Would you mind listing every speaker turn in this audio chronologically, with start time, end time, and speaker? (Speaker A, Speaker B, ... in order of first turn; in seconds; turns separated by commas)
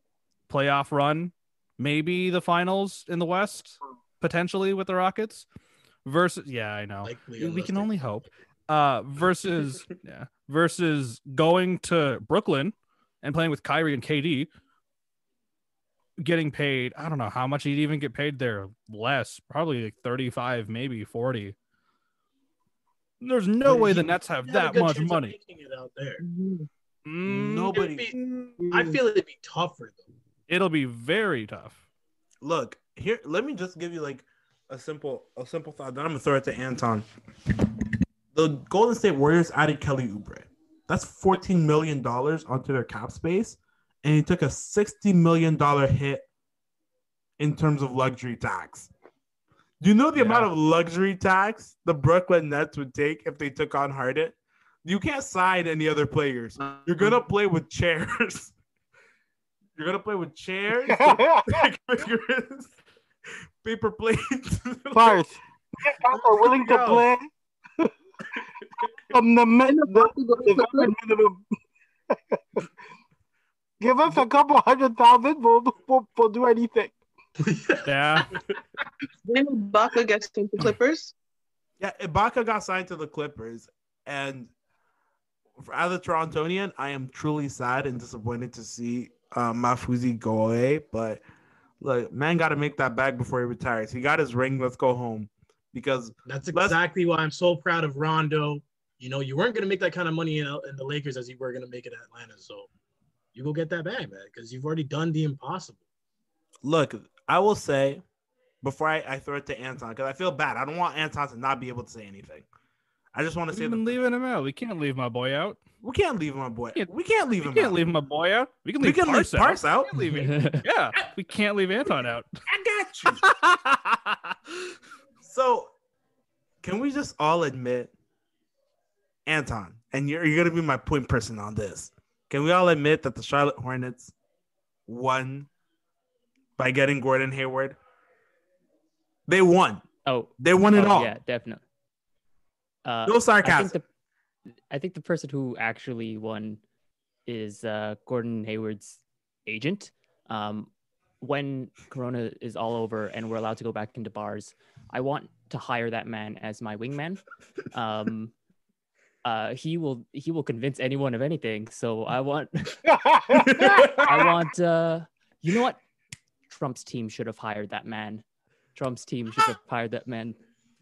Speaker A: 0.5-5.5, Speaker A: 6.0-14.5, Speaker B: 7.0-7.9, Speaker A: 16.2-21.5, Speaker A: 23.2-25.4, Speaker B: 23.6-26.2, Speaker C: 26.2-26.7, Speaker A: 27.0-27.8, Speaker D: 27.2-28.1, Speaker B: 27.7-28.1, Speaker C: 28.1-29.0, Speaker B: 28.7-30.0, Speaker A: 30.5-31.8, Speaker D: 32.4-37.0, Speaker D: 38.3-46.2, Speaker D: 47.4-48.9, Speaker D: 49.8-58.5, Speaker A: 50.1-50.5, Speaker C: 56.6-56.9, Speaker D: 59.8-62.8, Speaker E: 60.9-61.6, Speaker D: 63.6-65.2, Speaker E: 64.9-67.9, Speaker D: 66.5-67.0, Speaker E: 69.1-71.4, Speaker C: 69.7-70.9, Speaker E: 72.1-72.4, Speaker E: 73.8-76.9, Speaker B: 77.4-78.4, Speaker A: 77.8-78.3, Speaker C: 79.2-81.1, Speaker D: 81.8-84.5, Speaker D: 85.6-91.2, Speaker D: 91.8-96.8, Speaker B: 96.2-102.7, Speaker B: 103.3-105.8, Speaker D: 106.6-108.0, Speaker D: 108.6-112.5, Speaker D: 113.1-113.9, Speaker A: 113.5-115.6, Speaker D: 115.8-117.8, Speaker A: 116.7-122.4, Speaker D: 118.8-120.3, Speaker F: 120.2-120.6, Speaker D: 122.5-123.3, Speaker A: 123.0-124.5, Speaker D: 125.2-125.7, Speaker D: 126.6-127.9, Speaker D: 129.2-134.1, Speaker D: 134.9-135.5, Speaker D: 136.6-137.8, Speaker D: 139.3-139.8, Speaker F: 140.0-141.6, Speaker D: 140.4-141.2, Speaker F: 142.8-143.8, Speaker D: 143.1-143.7, Speaker F: 144.7-146.6, Speaker F: 147.2-158.3, Speaker F: 159.2-162.8, Speaker E: 162.8-164.1, Speaker D: 163.3-164.3, Speaker F: 163.5-165.8, Speaker F: 166.5-168.2, Speaker F: 168.7-170.4